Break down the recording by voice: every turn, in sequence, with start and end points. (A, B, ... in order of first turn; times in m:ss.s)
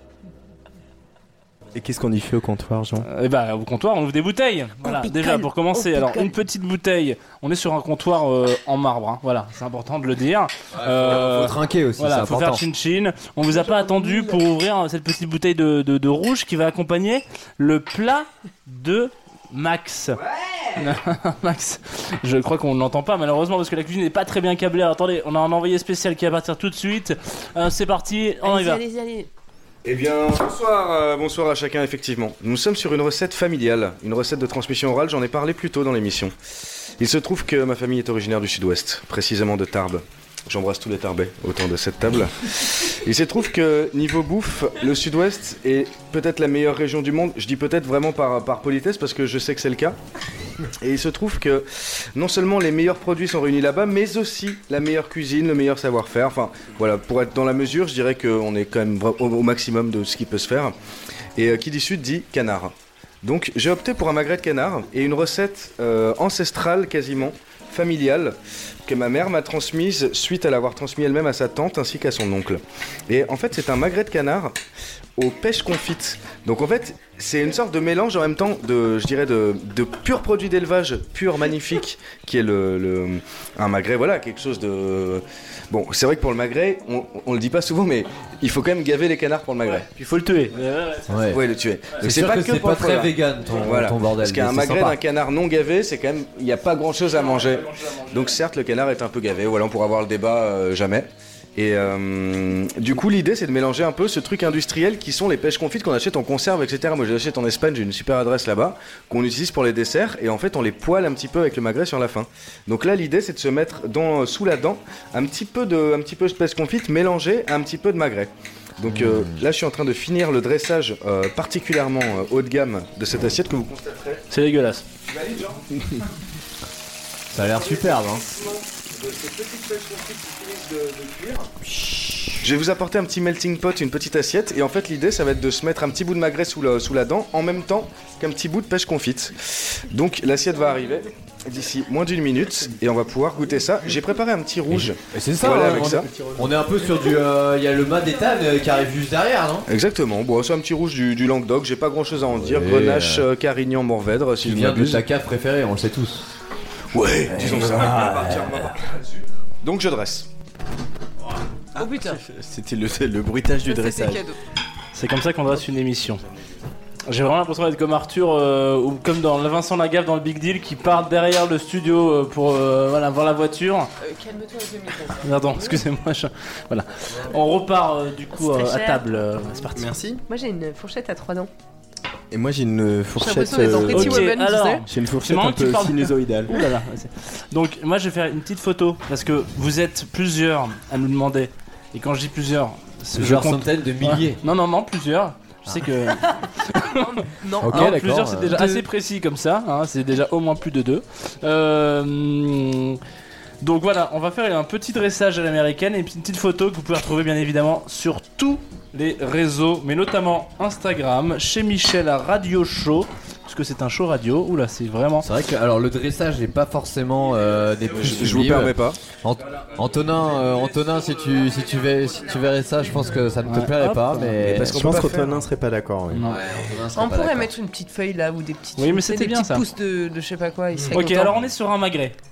0:01.7-0:03.0 A
0:03.0-0:20.2 B
0:04.8-0:06.3 C
0:10.7-0:12.6 D
0:13.5-0:14.4 C
0:20.2-0:20.8 E
0:20.8-0:28.8 B
0:28.4-0:29.3 C
0:29.8-0:36.3 E
0:37.0-0:50.0 E
0:50.8-1:00.7 E
1:01.3-1:14.5 E
1:15.2-1:29.8 E
1:29.6-1:31.4 B
1:31.1-1:31.4 D
1:31.3-2:04.2 E
1:32.0-1:35.0 D
1:37.1-1:38.4 B
1:58.8-1:59.4 D
2:04.3-2:04.8 B
2:05.0-2:05.6 E
2:07.3-2:08.2 D
2:07.9-2:11.5 E
2:11.6-2:12.5 D
2:12.4-2:26.1 E
2:24.7-2:29.6 D
2:25.9-2:26.5 A
2:29.7-2:35.0 E
2:32.3-2:33.3 D
2:34.4-2:36.2 D
2:36.9-2:40.3 E
2:37.3-2:38.8 D
2:41.8-2:42.2 C
2:42.2-2:44.2 A
2:43.6-2:44.4 C
2:44.9-2:46.2 B
2:47.1-2:53.9 B
2:54.0-2:55.8 C
2:55.2-2:59.9 B
2:58.3-2:59.1 C
2:59.7-3:00.2 A
3:00.3-3:01.5 C
3:02.3-3:04.3 A
3:03.1-3:04.8 C
3:03.9-3:23.0 B
3:04.8-3:06.5 A
3:13.1-3:14.4 D
3:15.7-3:15.9 D
3:16.9-3:18.8 C
3:17.6-3:18.6 D
3:23.6-3:35.3 B
3:35.2-3:44.9 D
3:37.9-3:39.0 E
3:43.4-3:44.4 B
3:44.4-3:45.5 E
3:44.7-3:46.3 A
3:46.1-3:46.4 B
3:46.2-3:47.5 D
3:46.9-3:51.4 C
3:48.8-3:49.6 B
3:50.9-3:52.2 B